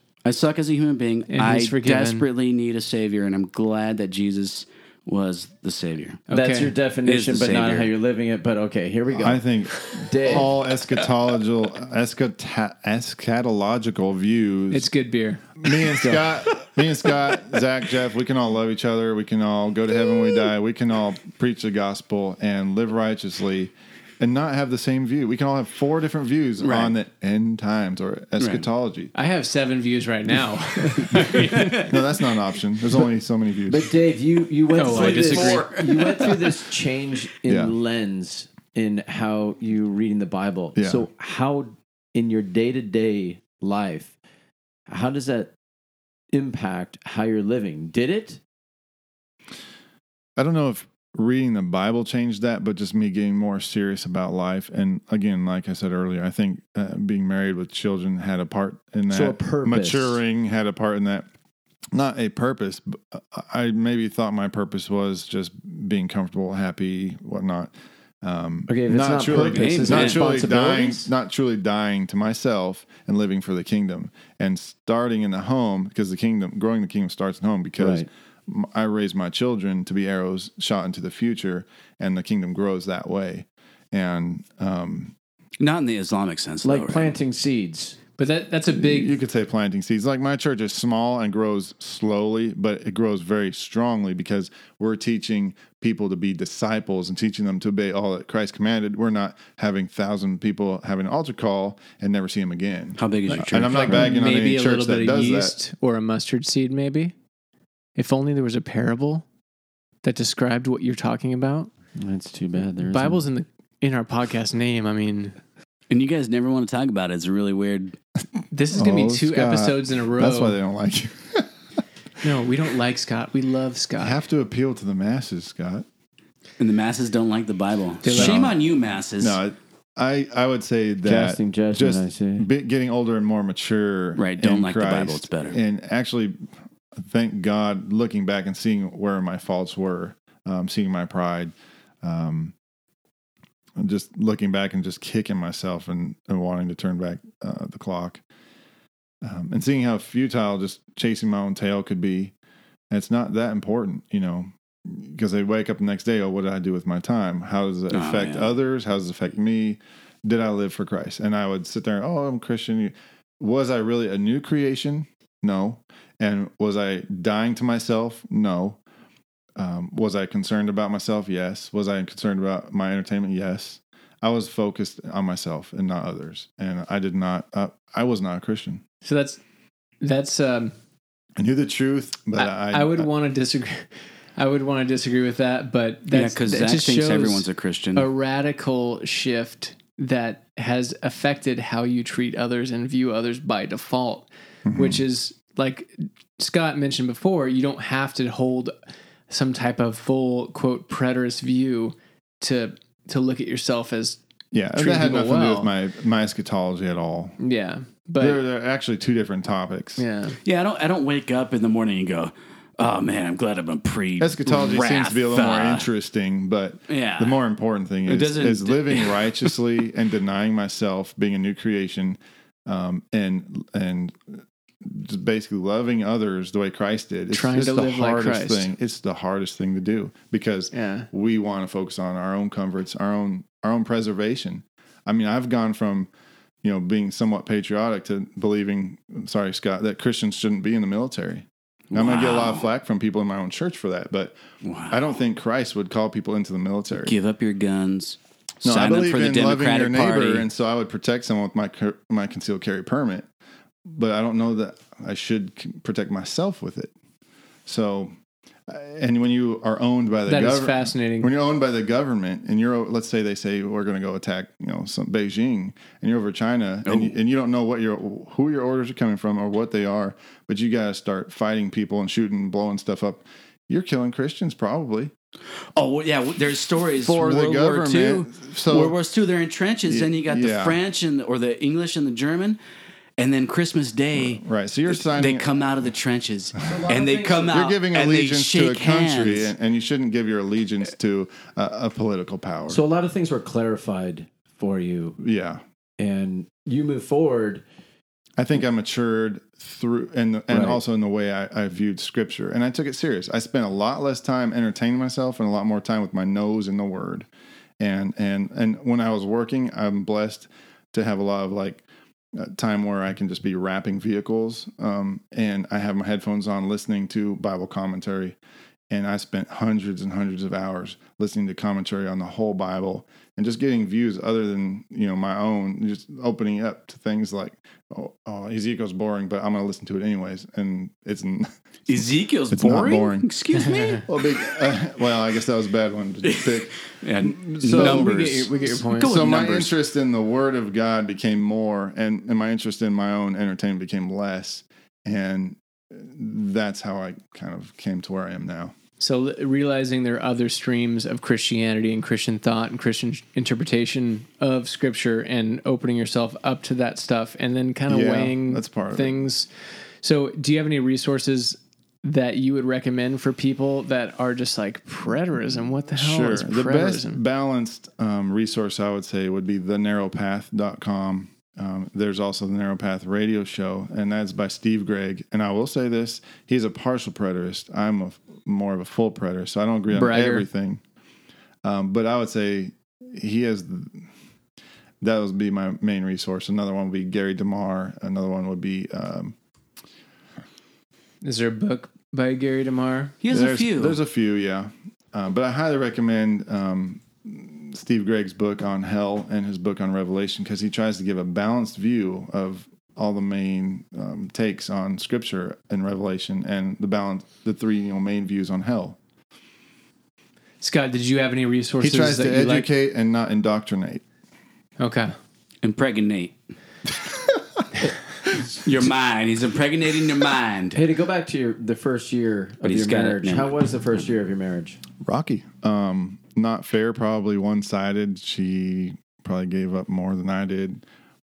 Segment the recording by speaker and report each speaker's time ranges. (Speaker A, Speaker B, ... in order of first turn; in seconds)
Speaker A: 0.2-6.2, 7.0-7.9, 26.6-26.9, 28.4-28.6, 31.2-31.9, 34.7-36.6, 69.4-70.3, 85.6-87.1, 103.0-104.1, 115.9-118.0, 126.6-129.4, 134.2-135.6, 157.9-158.5, 186.1-188.1, 210.4-215.9, 216.9-217.4, 218.1-219.3, 241.9-242.7, 244.6-245.0, 246.9-250.5, 266.8-267.1, 275.7-282.6, 283.2-289.5, 331.9-334.6, 336.2-339.7, 393.2-394.0, 415.6-416.4, 418.6-420.8, 422.6-423.6
Speaker B: 1.3-2.2, 6.3-6.7, 14.7-15.4, 29.1-31.9, 34.7-35.7, 88.2-89.1, 103.3-107.1, 108.0-109.2, 110.0-111.7, 112.8-115.3, 118.5-120.6, 122.2-124.2, 128.0-128.5, 179.0-179.4, 180.0-180.7, 182.4-198.7, 199.3-204.2, 204.7-205.7, 207.4-208.4, 210.0-210.4, 227.3-228.7, 230.7-231.1, 260.3-261.3, 337.7-339.2, 349.0-359.5, 360.0-367.2, 379.9-380.5, 391.2-393.1, 410.6-412.7, 414.8-415.1
Speaker C: 6.3-10.5, 15.9-16.4, 33.7-44.1, 44.9-45.5, 46.3-48.4, 59.1-60.2, 68.7-71.1, 77.8-78.1, 86.6-88.0, 112.0-113.2, 131.0-132.5, 286.6-287.6, 292.7-295.2, 296.0-297.6, 300.5-300.8, 420.7-424.8
Speaker D: 9.1-14.9, 15.6-29.1, 31.6-33.9, 37.5-37.7, 40.8-41.0, 50.4-61.3, 61.9-85.1, 88.7-105.5, 118.7-121.5, 124.0-125.8, 128.1-128.6, 129.2-136.4, 137.0-142.5, 143.8-148.2, 149.2-152.3, 152.9-168.8, 169.6-178.8, 181.4-183.1, 194.7-195.0, 204.5-207.4, 208.2-210.0, 214.2-236.1, 236.6-244.4, 244.9-247.1, 248.6-253.3, 253.8-256.9, 257.6-258.1, 258.7-275.1, 277.0-278.9, 279.9-280.8, 284.1-285.6, 287.5-292.8, 295.2-295.6, 298.4-307.3, 307.8-311.8, 312.4-318.4, 318.9-348.7, 357.9-359.2, 365.9-380.8, 381.6-384.0, 385.0-389.3, 393.3-409.0, 411.8-414.0, 425.0-430.8